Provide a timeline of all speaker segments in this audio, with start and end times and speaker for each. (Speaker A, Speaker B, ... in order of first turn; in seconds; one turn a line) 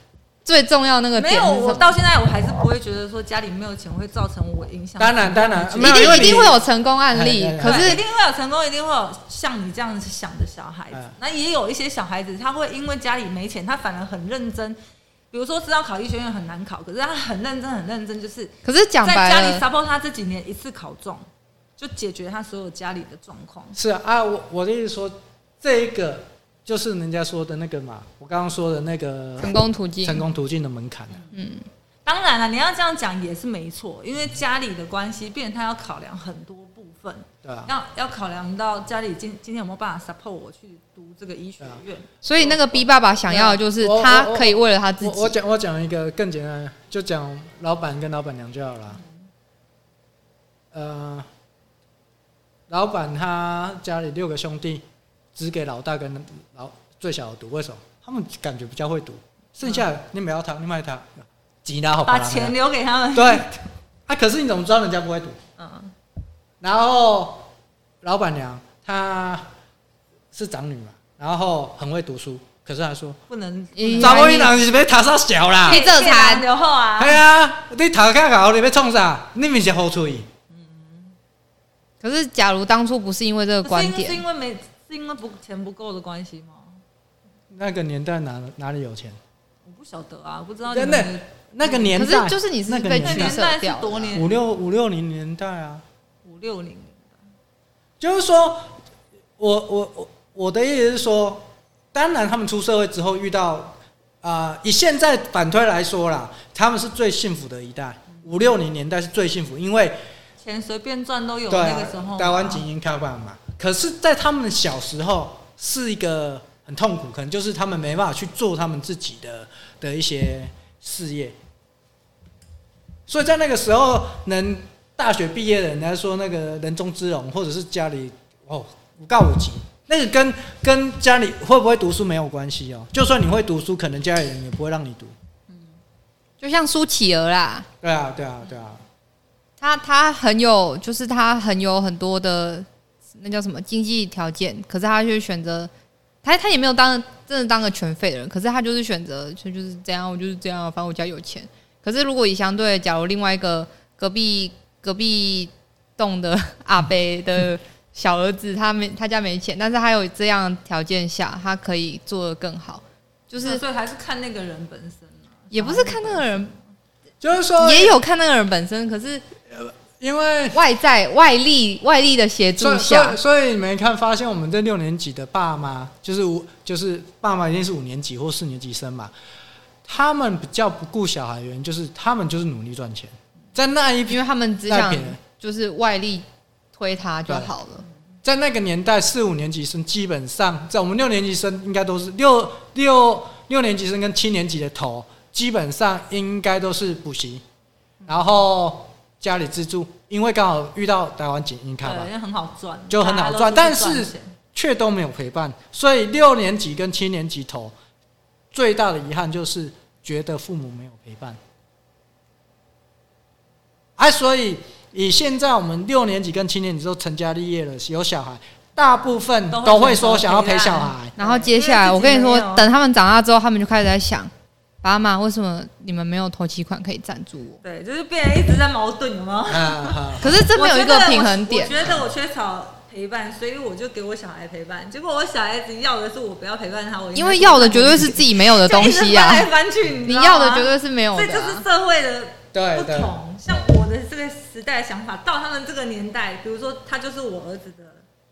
Speaker A: 0.5-1.9
Speaker B: 1.2-6.5
Speaker C: 5.0-6.6
Speaker A: 5.8-8.0
Speaker C: 7.1-8.0
Speaker B: 7.6-14.8
Speaker B: 15.3-21.2
Speaker A: 18.6-19.6
Speaker B: 21.8-23.8
Speaker C: 23.8-31.3
Speaker A: 29.4-30.2
Speaker B: 31.1-31.4
Speaker A: 31.3-31.7
Speaker B: 32.0-42.8
Speaker C: 37.4-37.7
Speaker A: 42.2-45.4
Speaker C: 43.3-49.0
Speaker C: 50.7-51.3
Speaker C: 52.7-54.8
Speaker C: 55.4-62.6
Speaker B: 62.1-63.6
Speaker C: 63.1-63.5
Speaker C: 64.1-65.4
Speaker B: 65.6-65.9
Speaker C: 66.6-67.5
Speaker C: 68.0-69.5
Speaker C: 70.3-73.2
Speaker B: 73.3-74.5
Speaker A: 73.8-74.5
Speaker C: 74.0-75.8
Speaker B: 75.7-77.2
Speaker A: 75.7-76.4
Speaker C: 77.0-80.3
Speaker B: 80.5-81.2
Speaker A: 82.0-84.2
Speaker B: 83.6-86.8
Speaker C: 87.5-89.2
Speaker B: 89.7-92.0
Speaker C: 90.7-93.4
Speaker A: 91.9-94.1
Speaker B: 93.0-94.4
Speaker C: 94.1-95.8
Speaker B: 96.2-97.2
Speaker C: 98.0-98.7
Speaker C: 99.4-110.0
Speaker B: 110.4-112.7
Speaker C: 111.5-121.4
Speaker C: 123.1-135.1
Speaker B: 135.5-135.8
Speaker A: 136.4-137.7
Speaker C: 137.8-138.8
Speaker A: 139.6-145.7
Speaker A: 146.2-163.6
Speaker B: 163.4-166.6
Speaker A: 165.5-166.5
Speaker C: 167.2-168.0
Speaker A: 167.6-169.2
Speaker C: 169.5-170.6
Speaker A: 170.5-173.2
Speaker C: 172.6-179.1
Speaker C: 179.8-185.2
Speaker A: 184.1-187.8
Speaker C: 188.2-197.4
Speaker C: 198.1-202.1
Speaker B: 201.8-204.3
Speaker C: 202.9-207.8
Speaker C: 208.5-211.4
Speaker C: 214.0-221.2
Speaker B: 219.5-222.7
Speaker A: 221.2-224.3
Speaker A: 224.8-227.6
Speaker B: 227.6-248.1
Speaker C: 229.5-230.4
Speaker A: 230.2-231.8
Speaker A: 237.2-239.5
Speaker A: 240.1-241.7
Speaker C: 242.5-243.7